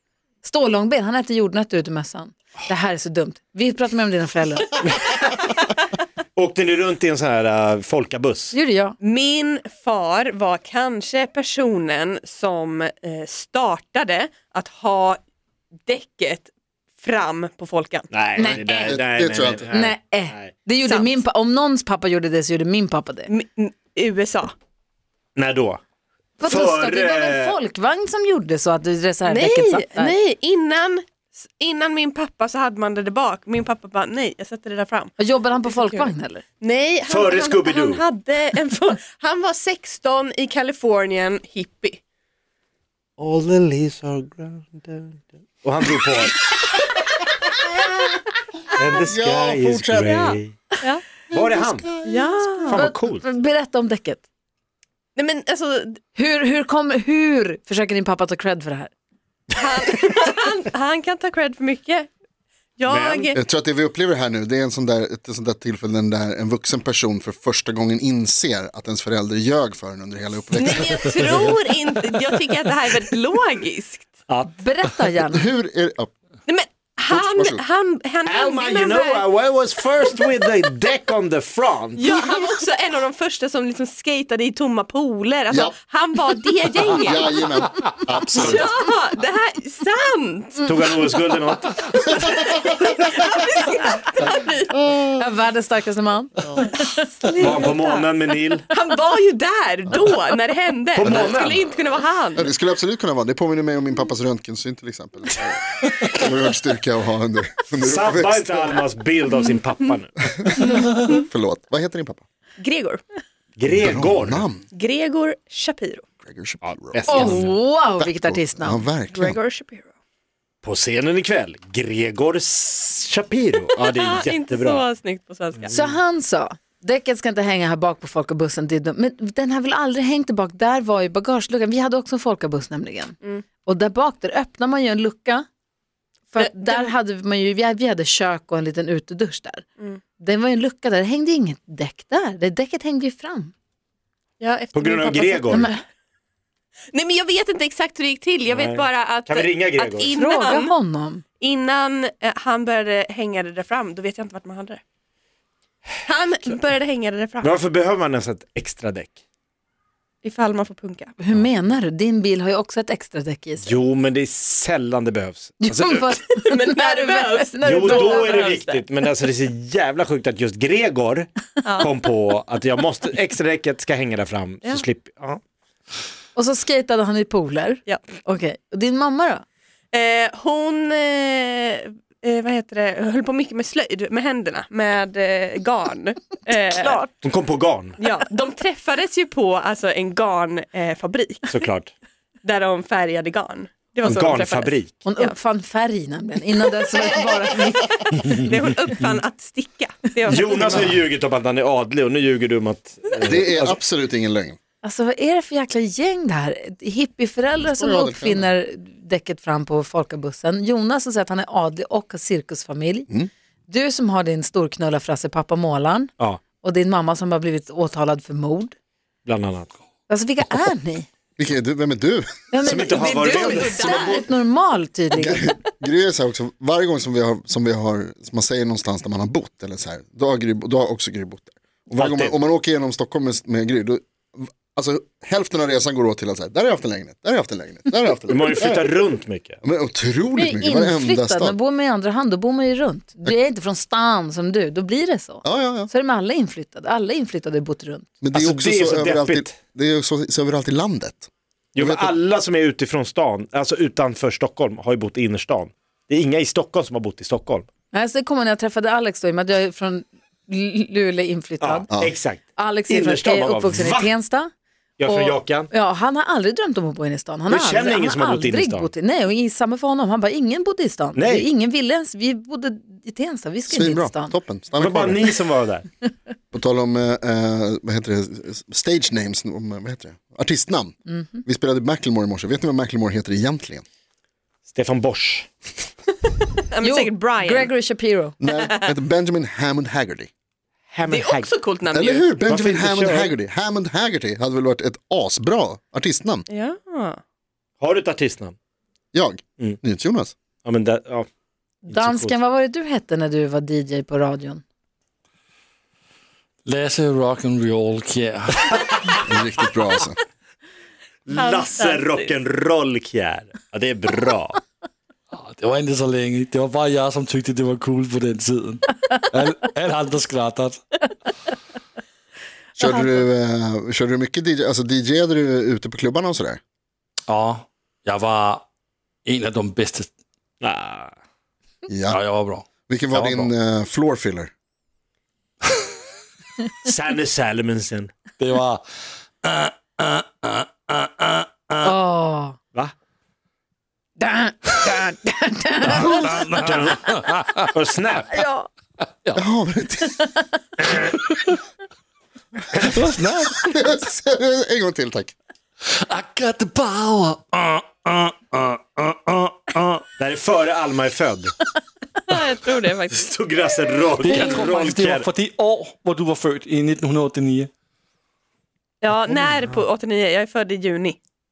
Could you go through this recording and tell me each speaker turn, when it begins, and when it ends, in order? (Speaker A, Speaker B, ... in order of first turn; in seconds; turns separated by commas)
Speaker A: 0.4-4.8, Speaker B: 6.4-8.6, Speaker A: 8.5-9.0, Speaker C: 9.0-15.2, Speaker C: 15.9-16.5, Speaker C: 17.0-18.1, Speaker B: 18.1-20.6, Speaker A: 18.4-19.0, Speaker D: 18.4-19.7, Speaker A: 19.7-23.3, Speaker C: 20.8-21.2, Speaker C: 23.3-24.5, Speaker B: 25.4-25.8, Speaker A: 26.4-30.1, Speaker B: 26.4-27.6, Speaker C: 29.2-42.0, Speaker A: 35.2-36.4, Speaker B: 37.1-38.0, Speaker B: 43.2-46.5, Speaker B: 48.8-50.6, Speaker D: 49.0-50.4, Speaker B: 51.3-51.9, Speaker D: 51.5-52.2, Speaker C: 52.0-52.8, Speaker B: 52.6-53.3, Speaker A: 52.7-54.2, Speaker C: 55.2-56.0, Speaker A: 56.1-58.9, Speaker C: 59.5-62.1, Speaker C: 62.8-63.4, Speaker B: 62.9-63.4, Speaker D: 63.3-71.4, Speaker C: 70.5-74.1, Speaker B: 74.3-74.5, Speaker A: 74.6-75.5, Speaker D: 75.3-76.1, Speaker C: 76.5-79.3, Speaker D: 77.1-77.6, Speaker B: 78.2-82.1, Speaker C: 82.0-87.3, Speaker D: 85.5-85.8, Speaker D: 86.9-88.7, Speaker C: 88.3-90.7, Speaker B: 90.6-91.9, Speaker C: 91.8-94.7, Speaker A: 95.1-96.8, Speaker C: 96.8-102.5, Speaker B: 97.4-98.7, Speaker B: 101.0-102.0, Speaker D: 101.0-101.5, Speaker D: 102.3-108.8, Speaker B: 107.7-110.3, Speaker D: 110.4-112.2, Speaker C: 110.6-111.2, Speaker C: 112.6-113.0, Speaker B: 113.6-114.5, Speaker D: 113.7-114.7, Speaker C: 114.7-116.0, Speaker D: 116.2-119.4, Speaker B: 116.6-117.5, Speaker A: 117.1-118.9, Speaker C: 119.1-119.9, Speaker B: 120.6-124.8, Speaker C: 123.7-125.8, Speaker A: 125.7-135.4, Speaker A: 136.3-139.7, Speaker C: 136.4-136.9, Speaker A: 140.2-143.5, Speaker C: 144.4-145.7, Speaker B: 144.7-145.7, Speaker A: 145.5-145.8, Speaker C: 146.9-150.7, Speaker B: 148.5-150.2, Speaker A: 150.2-151.2, Speaker C: 151.4-154.8, Speaker C: 156.1-157.5, Speaker B: 157.4-159.2, Speaker C: 160.2-161.1, Speaker A: 161.2-163.8, Speaker B: 163.6-166.0, Speaker A: 165.6-168.6, Speaker C: 166.1-168.8, Speaker B: 167.7-175.4, Speaker C: 171.7-171.9, Speaker A: 176.3-179.4, Speaker C: 179.9-187.2, Speaker B: 187.2-188.0, Speaker C: 188.0-191.5, Speaker B: 191.5-191.9, Speaker C: 192.4-195.4, Speaker B: 194.0-195.0, Speaker A: 195.1-197.9, Speaker C: 196.9-200.9, Speaker B: 200.3-203.8, Speaker D: 203.2-204.6, Speaker A: 204.8-213.1, Speaker D: 207.6-208.5, Speaker A: 213.7-218.8, Speaker B: 219.3-219.7, Speaker A: 220.1-221.1, Speaker D: 221.4-222.9, Speaker A: 222.5-225.6, Speaker B: 222.6-223.8, Speaker C: 222.9-224.2, Speaker D: 223.8-224.2, Speaker D: 225.1-239.0, Speaker B: 231.9-232.4, Speaker B: 238.3-239.6, Speaker D: 239.6-241.6, Speaker A: 240.3-248.1, Speaker D: 245.4-245.9, Speaker D: 248.2-252.2, Speaker B: 248.3-249.6, Speaker B: 251.8-257.7, Speaker A: 257.9-261.9, Speaker B: 261.6-264.1, Speaker A: 262.6-264.5, Speaker B: 265.0-265.7, Speaker A: 265.1-274.4, Speaker B: 267.5-268.9, Speaker B: 271.1-271.5, Speaker D: 273.7-275.3, Speaker B: 274.8-275.9, Speaker D: 276.5-283.8, Speaker A: 281.1-281.4, Speaker B: 284.7-285.5, Speaker C: 286.7-287.7, Speaker A: 286.8-288.4, Speaker D: 288.4-290.3, Speaker B: 290.9-291.5, Speaker C: 291.1-292.5, Speaker D: 291.9-296.5, Speaker B: 292.4-293.4, Speaker C: 296.5-297.2, Speaker B: 297.8-298.6, Speaker D: 299.1-300.4, Speaker B: 300.6-301.3, Speaker A: 301.9-304.6, Speaker B: 301.9-302.3, Speaker E: 306.6-308.8, Speaker D: 309.2-310.2, Speaker B: 311.3-314.6, Speaker C: 311.3-312.3, Speaker E: 315.3-320.8, Speaker D: 322.8-326.6, Speaker A: 322.8-323.3, Speaker E: 327.3-328.6, Speaker E: 329.2-330.1, Speaker B: 330.6-331.1, Speaker D: 331.9-332.2, Speaker E: 332.1-333.5, Speaker D: 332.9-334.5, Speaker B: 336.8-338.1, Speaker E: 338.4-338.8, Speaker E: 339.4-342.0, Speaker A: 341.8-342.6, Speaker A: 344.2-346.4, Speaker E: 345.8-347.7, Speaker B: 346.6-347.1, Speaker B: 347.7-348.3, Speaker A: 348.3-348.7, Speaker D: 349.4-350.2, Speaker E: 351.1-351.4, Speaker E: 352.9-353.7, Speaker D: 353.6-355.3, Speaker E: 355.9-360.0, Speaker B: 360.2-361.5, Speaker C: 362.3-363.3, Speaker B: 363.2-365.3, Speaker E: 364.2-367.7, Speaker C: 369.0-371.2